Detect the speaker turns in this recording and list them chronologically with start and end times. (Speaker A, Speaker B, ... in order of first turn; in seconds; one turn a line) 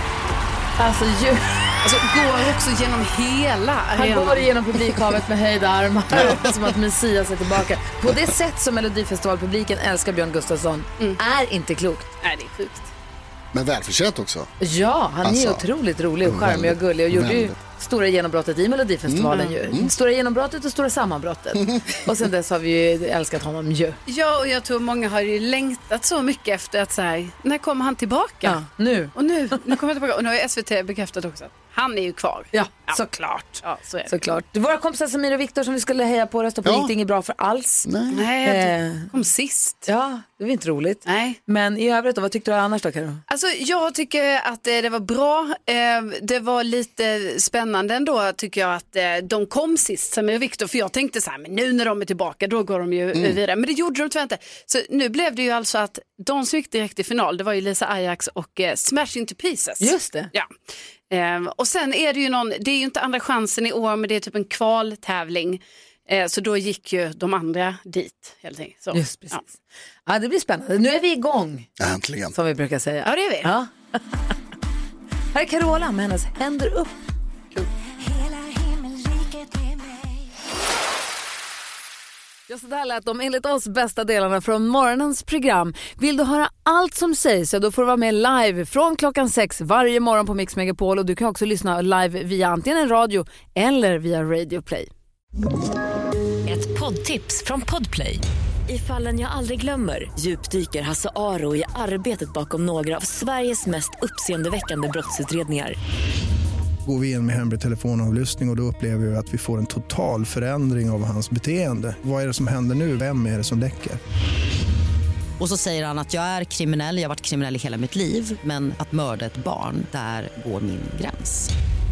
Speaker A: 0.8-1.5
Speaker B: 1.8-4.5
Speaker A: 4.0-12.1
Speaker C: 6.1-6.7
Speaker B: 12.2-12.9
Speaker C: 13.5-14.5
Speaker A: 14.6-24.0
Speaker C: 15.2-15.7
Speaker C: 16.2-17.6
Speaker C: 19.1-19.9
Speaker B: 19.3-19.6
Speaker B: 24.1-28.6
Speaker A: 28.4-29.1
Speaker B: 29.1-33.0
Speaker A: 32.5-37.9
Speaker B: 33.6-34.1
Speaker C: 36.6-36.9
Speaker C: 37.9-38.2
Speaker B: 38.1-39.9
Speaker A: 38.4-39.1
Speaker A: 39.9-43.2
Speaker B: 41.0-41.4
Speaker B: 43.3-60.5
Speaker C: 53.1-53.4
Speaker A: 59.8-60.3
Speaker B: 61.1-69.4
Speaker A: 68.9-71.7
Speaker C: 71.8-72.3
Speaker A: 72.3-73.7
Speaker B: 73.0-73.5
Speaker A: 75.3-77.0
Speaker A: 82.5-94.9
Speaker D: 96.5-105.8
Speaker E: 106.8-114.0
Speaker F: 115.4-121.5